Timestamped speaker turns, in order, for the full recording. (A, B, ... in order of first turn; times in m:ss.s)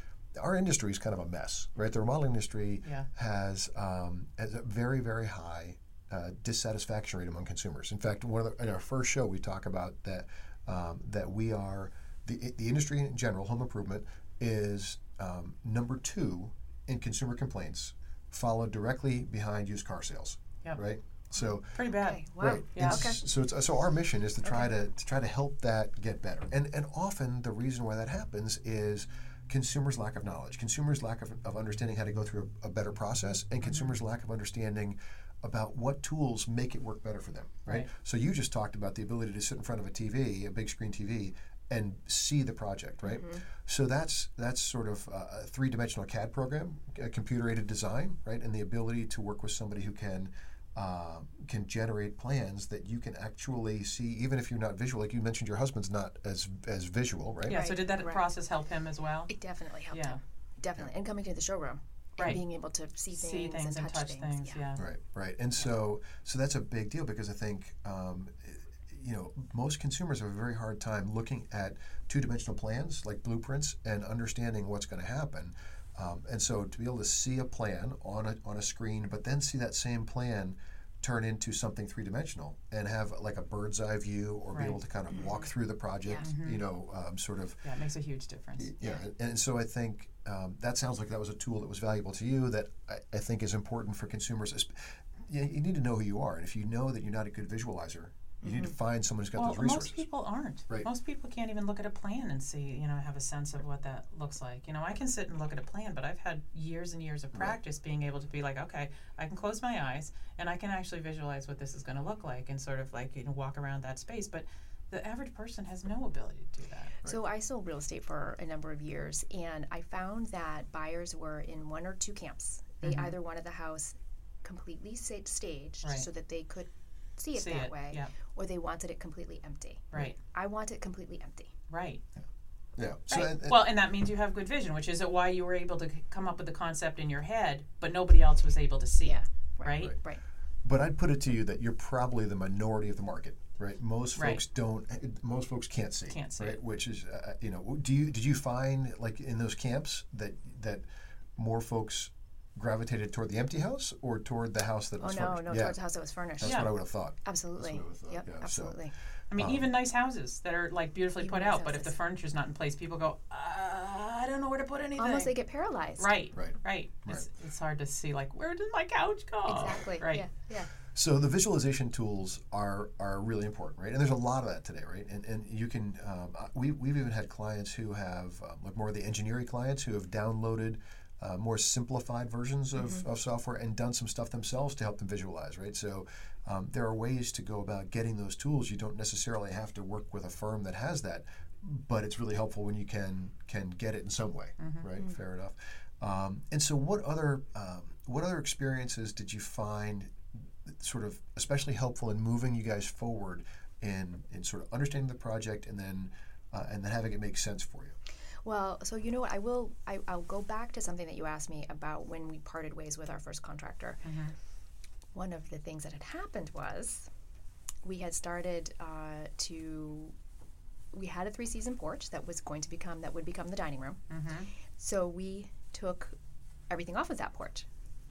0:00.4-0:21.8 A
0:21.7-0:23.1 B
0:21.9-0:23.2 C
0:22.4-0:57.6 A
0:24.4-0:24.7 C
0:43.1-0:43.4 C
0:57.5-0:59.3 B
0:57.5-0:58.3 C
0:59.3-1:04.6 C
0:59.9-1:00.2 B
1:03.1-1:04.8 B
1:04.8-1:27.6 A
1:24.5-1:24.8 B
1:26.2-1:26.6 B
1:27.6-1:28.7 B
1:28.6-1:40.0 A
1:38.4-1:38.7 C
1:39.4-1:56.9 B
1:57.0-2:11.5 C
2:02.8-2:03.2 B
2:07.4-2:08.1 B
2:11.7-2:12.0 B
2:12.8-2:13.6 A
2:13.1-2:20.0 B
2:19.0-2:20.2 C
2:20.6-2:30.8 A
2:24.2-2:24.4 B
2:26.1-2:26.6 B
2:31.4-2:35.8 A
2:35.0-2:38.9 C
2:36.4-2:38.8 A
2:36.4-2:36.7 B
2:39.3-2:45.3 B
2:39.4-2:39.6 A
2:41.2-2:41.9 C
2:45.0-2:46.1 C
2:46.0-2:50.3 B
2:46.4-2:47.3 A
2:49.5-2:50.7 C
2:50.9-3:28.0 A
3:14.6-3:14.9 B
3:28.4-3:34.0 C
3:34.0-3:34.3 B
3:35.1-3:37.1 C
3:37.8-3:40.2 C
3:40.9-3:44.0 C
3:44.1-3:44.5 B
3:44.8-3:46.2 C
3:46.7-3:47.7 C